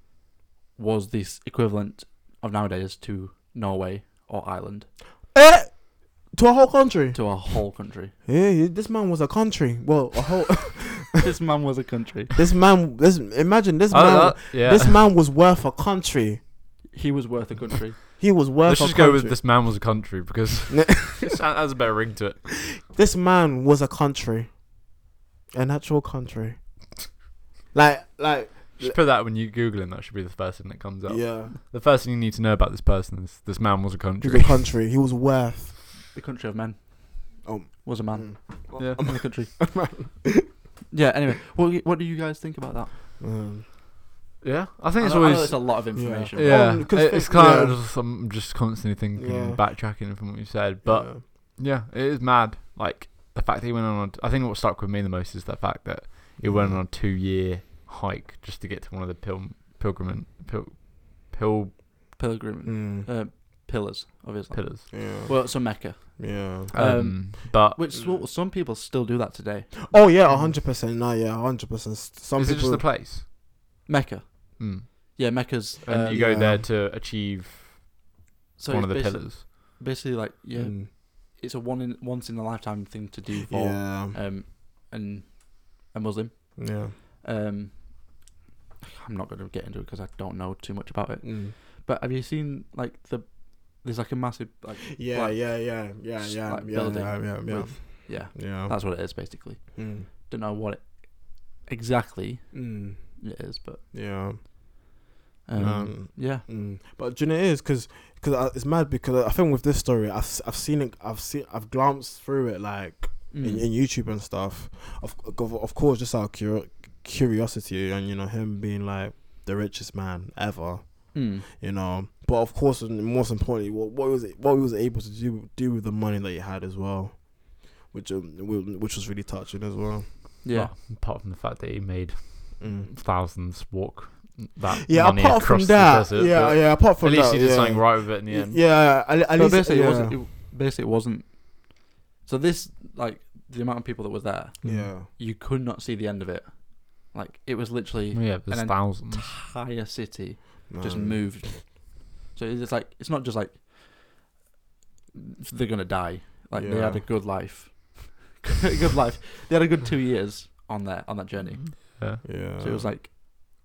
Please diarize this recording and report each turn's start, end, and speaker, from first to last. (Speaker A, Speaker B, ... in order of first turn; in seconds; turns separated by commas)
Speaker A: 0.8-4.9, Speaker B: 5.3-7.6, Speaker A: 7.1-8.2, Speaker B: 8.2-11.2, Speaker A: 11.2-12.4, Speaker B: 12.3-16.5, Speaker C: 13.9-15.0, Speaker A: 16.9-18.2, Speaker B: 18.0-19.4, Speaker C: 18.6-22.7, Speaker B: 20.7-21.4, Speaker B: 22.8-24.7, Speaker B: 25.5-26.6, Speaker B: 27.7-29.0, Speaker C: 28.8-34.8, Speaker B: 31.1-31.6, Speaker B: 34.2-35.8, Speaker A: 36.1-39.7, Speaker B: 37.4-40.5, Speaker C: 38.8-39.2, Speaker A: 40.9-43.0, Speaker B: 43.2-43.6, Speaker C: 44.4-62.2, Speaker A: 45.0-46.7, Speaker B: 45.9-47.9, Speaker B: 49.2-49.7, Speaker B: 50.8-51.2, Speaker B: 56.4-56.9, Speaker A: 62.2-70.1, Speaker B: 62.6-63.1, Speaker C: 64.5-64.9, Speaker B: 64.9-66.7, Speaker C: 66.7-67.8, Speaker B: 67.9-68.3, Speaker B: 69.9-72.9, Speaker C: 72.4-73.2, Speaker A: 73.9-76.4, Speaker C: 74.6-77.9, Speaker B: 76.0-76.7, Speaker A: 78.6-88.2, Speaker C: 78.7-79.5, Speaker B: 80.5-80.9, Speaker B: 83.4-84.2, Speaker B: 86.6-86.9, Speaker A: 88.8-103.8, Speaker B: 91.2-91.5, Speaker B: 94.9-98.8, Speaker B: 99.8-100.1, Speaker B: 102.5-103.3, Speaker B: 103.9-104.4, Speaker A: 105.5-106.5, Speaker B: 105.6-130.1, Speaker A: 113.3-113.7, Speaker A: 121.1-121.5, Speaker A: 130.4-130.7, Speaker C: 130.5-138.6, Speaker B: 132.6-132.9, Speaker B: 134.8-140.2, Speaker A: 139.3-154.2, Speaker B: 144.6-145.1, Speaker C: 144.6-144.9, Speaker C: 148.1-149.4, Speaker B: 150.7-151.5, Speaker A: 155.1-163.2, Speaker B: 156.5-157.1, Speaker C: 161.6-162.3, Speaker B: 162.2-162.9